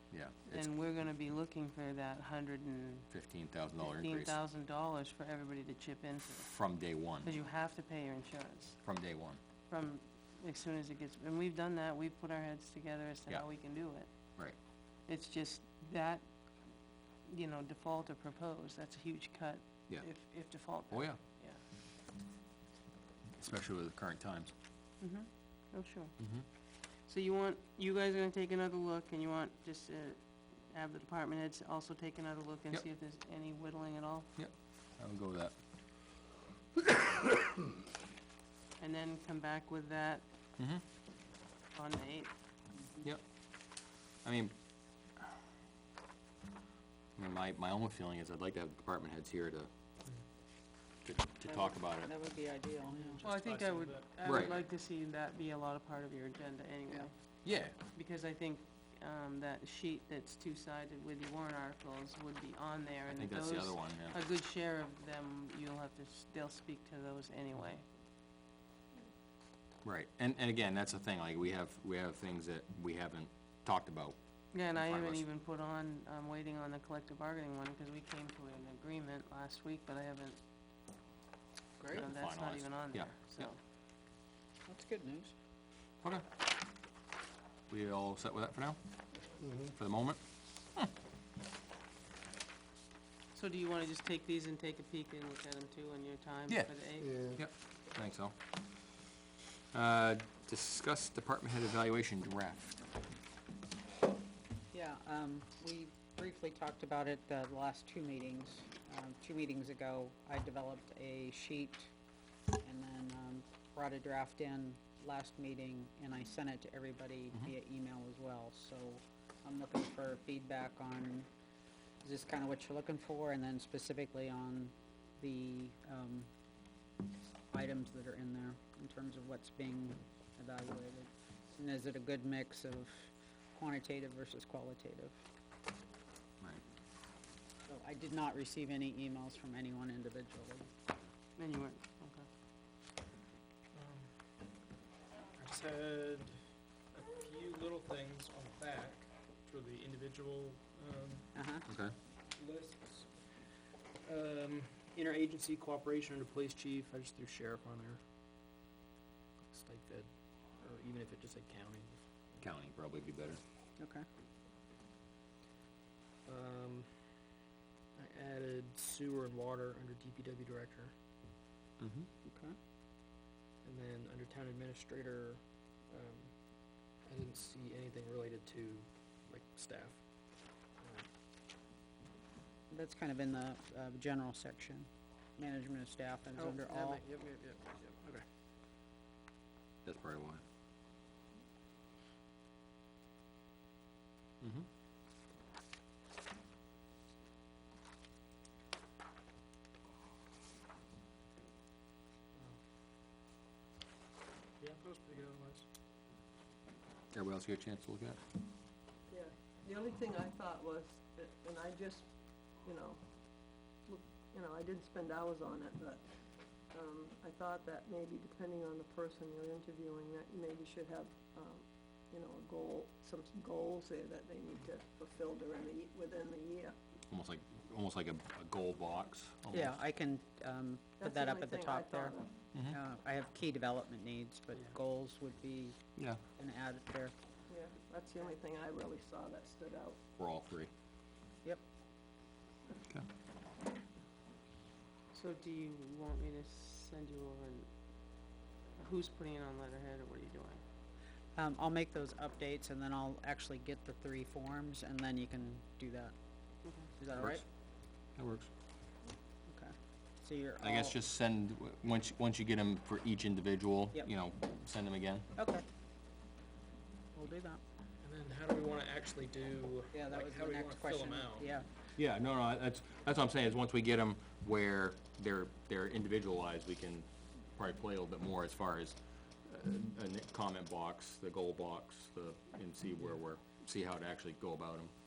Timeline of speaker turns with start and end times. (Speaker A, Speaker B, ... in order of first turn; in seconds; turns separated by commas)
Speaker A: 0.1-0.7, Speaker B: 0.5-3.1, Speaker A: 3.1-4.4, Speaker B: 3.8-6.5, Speaker A: 6.4-7.3, Speaker B: 7.2-8.8, Speaker A: 8.8-9.4, Speaker B: 9.7-14.1, Speaker B: 15.1-16.2, Speaker B: 17.2-21.6, Speaker A: 19.9-21.2, Speaker A: 23.4-24.5, Speaker B: 25.0-26.1, Speaker A: 26.2-26.4, Speaker B: 27.0-34.3, Speaker A: 34.4-35.5, Speaker B: 38.8-40.2, Speaker A: 40.6-40.8, Speaker B: 41.7-42.3, Speaker C: 42.8-43.1, Speaker A: 43.0-44.5, Speaker A: 47.1-49.7, Speaker A: 51.0-52.1, Speaker C: 51.5-53.2, Speaker D: 53.0-54.5, Speaker B: 53.2-57.1, Speaker A: 54.2-54.6, Speaker A: 57.4-57.8, Speaker B: 57.6-67.8, Speaker A: 63.1-64.2, Speaker A: 69.8-75.2, Speaker B: 74.5-80.4, Speaker A: 81.9-83.5, Speaker B: 81.9-83.6, Speaker C: 84.7-85.3, Speaker A: 87.7-88.8, Speaker A: 89.6-90.2, Speaker B: 93.3-97.3, Speaker A: 96.5-98.3, Speaker A: 99.7-102.8, Speaker C: 104.7-111.9, Speaker C: 112.6-121.3, Speaker C: 122.0-126.3, Speaker C: 127.5-135.2, Speaker C: 137.7-140.7, Speaker B: 141.4-142.3, Speaker D: 143.7-144.1, Speaker D: 145.3-146.4, Speaker D: 146.9-151.3, Speaker C: 151.3-151.7, Speaker A: 151.7-151.9, Speaker D: 152.3-153.3, Speaker D: 154.0-158.0, Speaker D: 159.5-160.1, Speaker D: 160.6-162.3, Speaker A: 162.4-163.4, Speaker C: 163.8-164.1, Speaker D: 166.2-166.9, Speaker D: 167.9-170.9, Speaker A: 171.8-172.1, Speaker C: 172.2-172.5, Speaker D: 173.6-176.3, Speaker D: 177.0-180.0, Speaker D: 180.8-181.1, Speaker C: 182.7-187.0, Speaker D: 186.3-188.2, Speaker A: 189.8-190.4, Speaker A: 194.4-194.7, Speaker D: 204.6-205.7, Speaker A: 207.1-208.2, Speaker E: 209.1-212.1, Speaker E: 212.6-213.0, Speaker E: 213.8-216.1, Speaker E: 216.7-226.7, Speaker A: 227.1-229.8, Speaker C: 229.5-235.8, Speaker E: 231.0-232.3, Speaker C: 236.4-237.2, Speaker E: 237.5-240.0, Speaker A: 240.2-240.7, Speaker B: 245.1-247.7, Speaker B: 248.8-250.6, Speaker C: 251.3-256.1, Speaker B: 256.6-256.9, Speaker C: 257.0-257.4, Speaker A: 257.2-257.4, Speaker A: 258.2-258.5, Speaker C: 259.5-261.0, Speaker A: 260.6-265.2, Speaker C: 265.4-265.6, Speaker C: 267.1-267.6, Speaker D: 268.0-271.5, Speaker C: 269.9-271.7, Speaker A: 271.9-284.9